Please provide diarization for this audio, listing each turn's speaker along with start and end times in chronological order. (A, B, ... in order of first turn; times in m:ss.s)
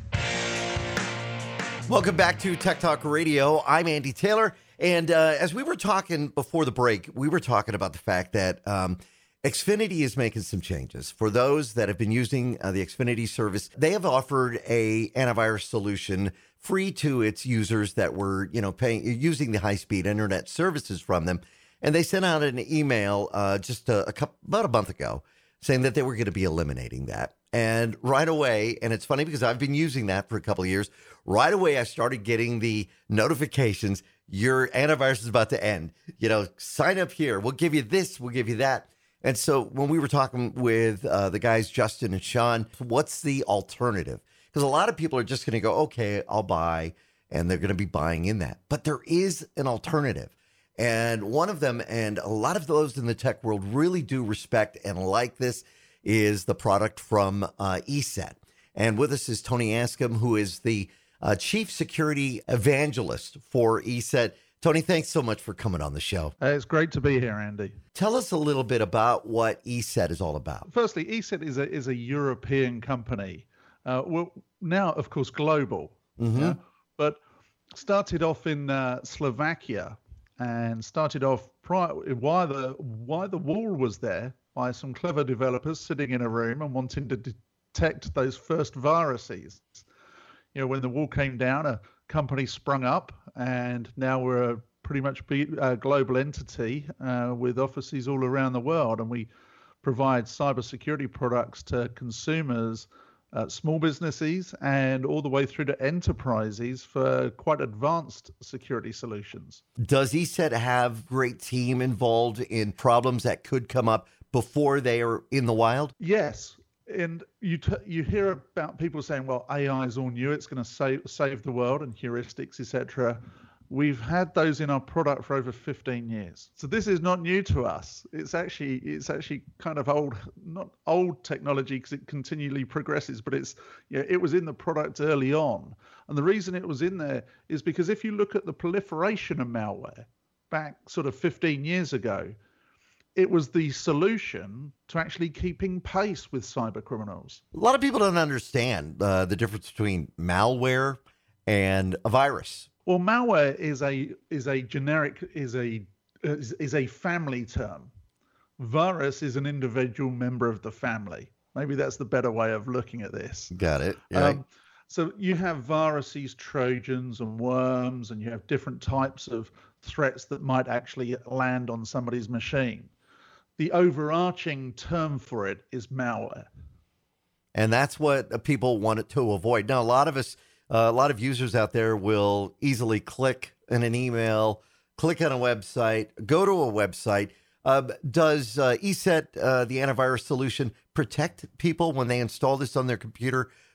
0:01.9-1:06.4 A
1:06.4-1:07.8 B
1:08.0-1:10.7 A
1:10.7-1:17.2 B
1:16.2-1:16.6 A
1:17.7-1:29.8 B
1:30.5-1:39.3 B
1:39.8-1:49.6 B
1:49.8-1:55.9 A
1:56.0-2:22.4 B
2:23.2-2:27.4 B
2:27.5-2:32.7 A
2:32.9-2:37.9 B
2:38.6-2:43.5 B
2:43.5-2:44.4 A
2:44.1-2:52.9 B
2:53.6-2:56.5 B
2:57.6-3:13.5 A